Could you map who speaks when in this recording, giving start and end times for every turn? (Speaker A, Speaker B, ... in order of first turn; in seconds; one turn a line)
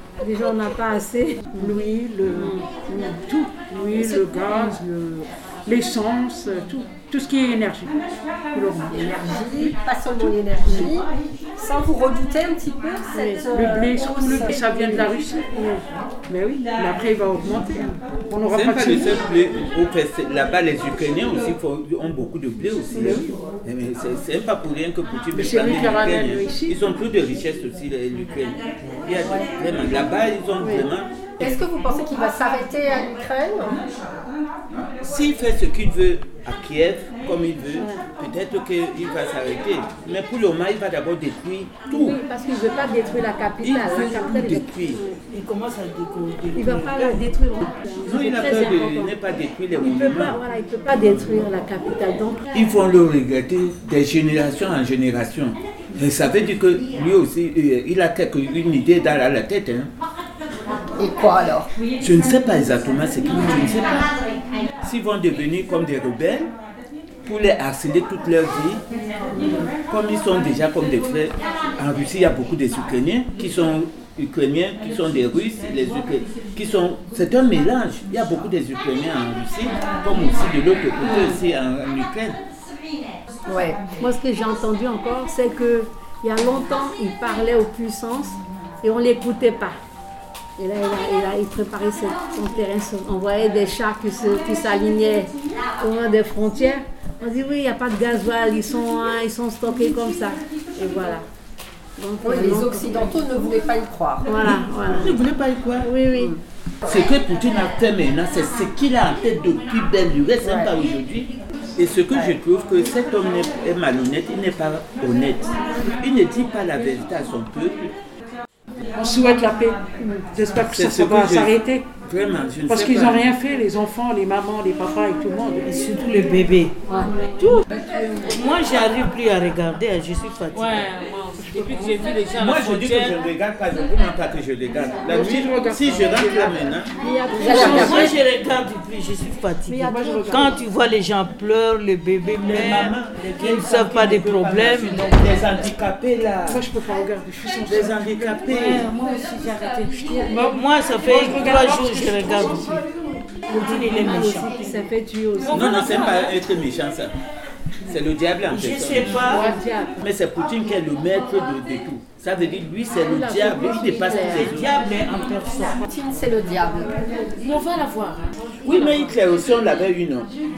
Speaker A: 0.2-1.8
Speaker B: 1.6-2.6
Speaker A: 2.3-3.2
Speaker B: 3.2-7.9
Speaker C: 4.0-4.3
Speaker B: 8.5-9.1
Speaker C: 8.9-15.1
Speaker B: 10.2-10.9
Speaker A: 13.1-13.5
Speaker B: 13.5-15.5
Speaker A: 15.5-15.8
Speaker B: 16.3-19.2
Speaker D: 18.5-31.6
Speaker A: 22.9-23.2
Speaker B: 25.3-26.8
Speaker C: 29.2-29.5
Speaker A: 30.6-30.9
Speaker C: 31.4-33.8
Speaker D: 35.0-42.2
Speaker A: 37.8-38.0
Speaker A: 41.9-45.2
Speaker D: 43.6-45.0
Speaker E: 45.3-47.3
Speaker A: 46.5-49.1
Speaker D: 48.0-50.4
Speaker A: 49.8-52.5
Speaker D: 52.5-59.9
Speaker C: 61.0-61.7
Speaker D: 62.0-64.2
Speaker D: 64.8-66.5
Speaker D: 67.2-68.8
Speaker C: 69.4-69.7
Speaker D: 69.9-82.4
Speaker C: 81.0-81.4
Speaker C: 83.5-83.9
Speaker A: 83.9-89.8
Speaker A: 90.6-101.2
Speaker A: 102.0-103.2
Speaker C: 102.2-104.9
Speaker A: 104.3-105.1
Speaker D: 104.9-105.9
Speaker A: 105.8-106.4
Speaker D: 106.9-117.9
Speaker C: 110.4-110.7
Speaker B: 119.0-121.9
Speaker D: 120.7-121.5
Speaker D: 122.1-123.3
Speaker B: 122.7-125.7
Speaker E: 125.6-126.8
Speaker E: 127.4-127.7
Speaker E: 128.2-130.9
Speaker F: 130.5-133.2
Speaker B: 131.4-132.0
Speaker D: 132.3-136.9
Speaker B: 135.0-136.7
Speaker A: 137.0-138.2
Speaker C: 137.3-138.2
Speaker E: 137.5-145.3
Speaker B: 137.5-137.8
Speaker D: 137.6-137.9
Speaker A: 139.7-140.6
Speaker B: 139.8-140.5
Speaker D: 142.4-146.7
Speaker B: 146.5-148.5
Speaker D: 147.7-148.9
Speaker F: 148.5-150.0
Speaker A: 149.6-150.3
Speaker B: 150.1-152.8
Speaker E: 150.5-152.8
Speaker E: 153.5-154.6
Speaker A: 153.5-155.9
Speaker D: 155.5-157.1
Speaker E: 155.5-156.3
Speaker D: 157.9-159.3
Speaker E: 158.5-159.5
Speaker B: 159.3-159.6
Speaker A: 159.3-160.0
Speaker D: 160.0-164.8
Speaker A: 163.1-164.6
Speaker E: 164.3-165.8
Speaker C: 165.8-167.0
Speaker F: 167.4-168.4
Speaker D: 168.7-170.3